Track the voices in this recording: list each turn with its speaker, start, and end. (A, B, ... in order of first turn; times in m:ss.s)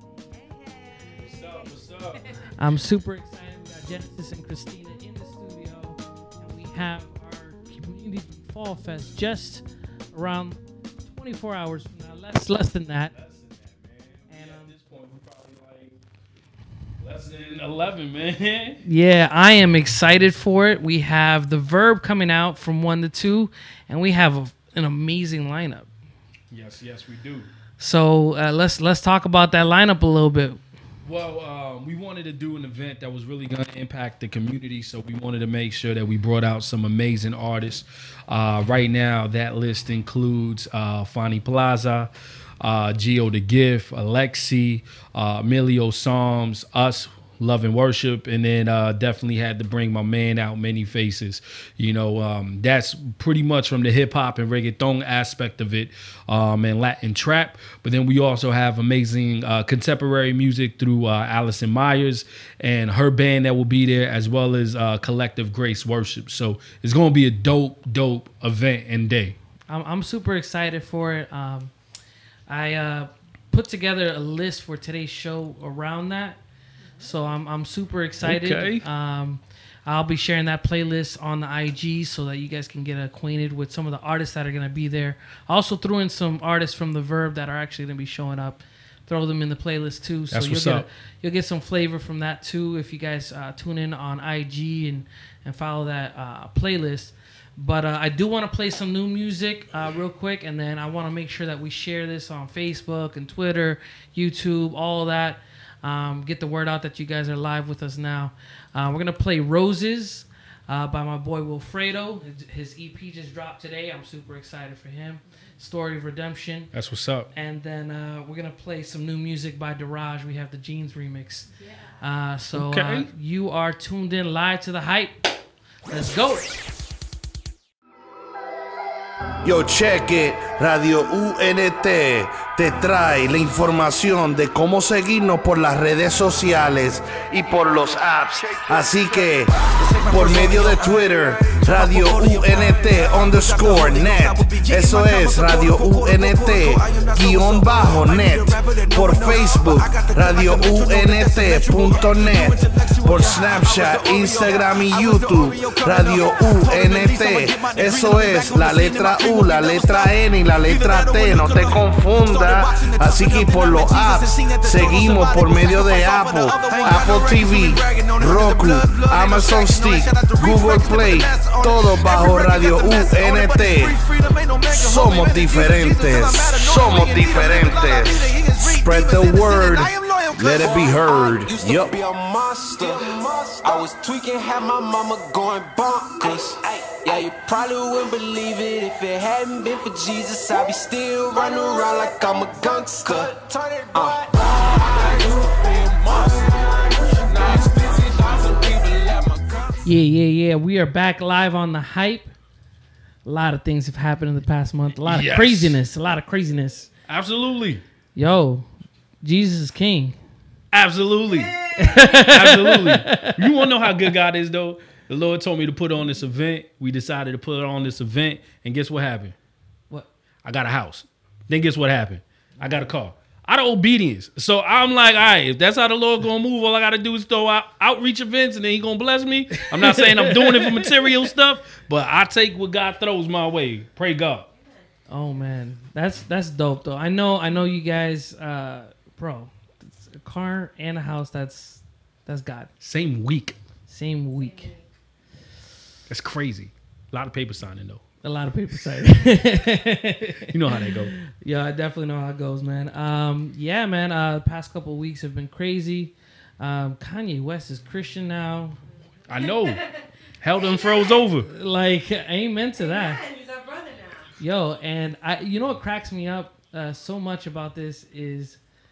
0:00.3-0:01.7 A
0:01.1-0:02.4 B
0:02.6-0:09.6 C
0:10.1-0:13.1 C
0:13.1-0:16.0 B
0:14.3-0:14.7 C
0:17.0-0:18.8 B
0:18.8-0:25.9 C
0:26.5-0:27.5 B
0:27.8-0:30.6 C
0:31.0-1:09.4 B
1:09.7-1:11.7 C
1:12.5-1:16.4 C
1:17.0-1:56.7 C
1:18.2-1:18.8 B
1:30.3-1:30.9 B
1:56.7-1:57.3 B
1:57.3-2:01.5 C
2:02.0-2:05.2 C
2:02.5-2:03.1 B
2:05.9-2:06.5 C
2:09.4-2:54.0 D
2:19.1-3:19.7 E
2:54.7-3:02.0 D
3:19.8-3:22.3 C
3:23.2-3:26.9 C
3:25.0-3:25.8 B
3:27.1-3:27.8 B
3:28.1-3:28.7 C
3:29.2-3:30.2 C
3:30.7-3:39.3 B
3:31.7-3:32.0 A
3:31.8-3:34.1 C
3:40.4-3:54.5 B
3:42.6-3:42.8 C
3:49.6-3:51.2 C
3:55.1-4:02.7 C
4:02.8-4:03.6 B
4:03.9-4:04.7 C
4:04.3-4:04.8 A
4:06.1-4:08.0 B
4:08.2-4:18.8 C
4:10.5-4:11.1 B
4:19.3-4:19.8 B
4:20.4-4:21.5 B
4:21.4-4:23.2 C
4:23.2-4:24.2 A
4:24.4-4:28.6 C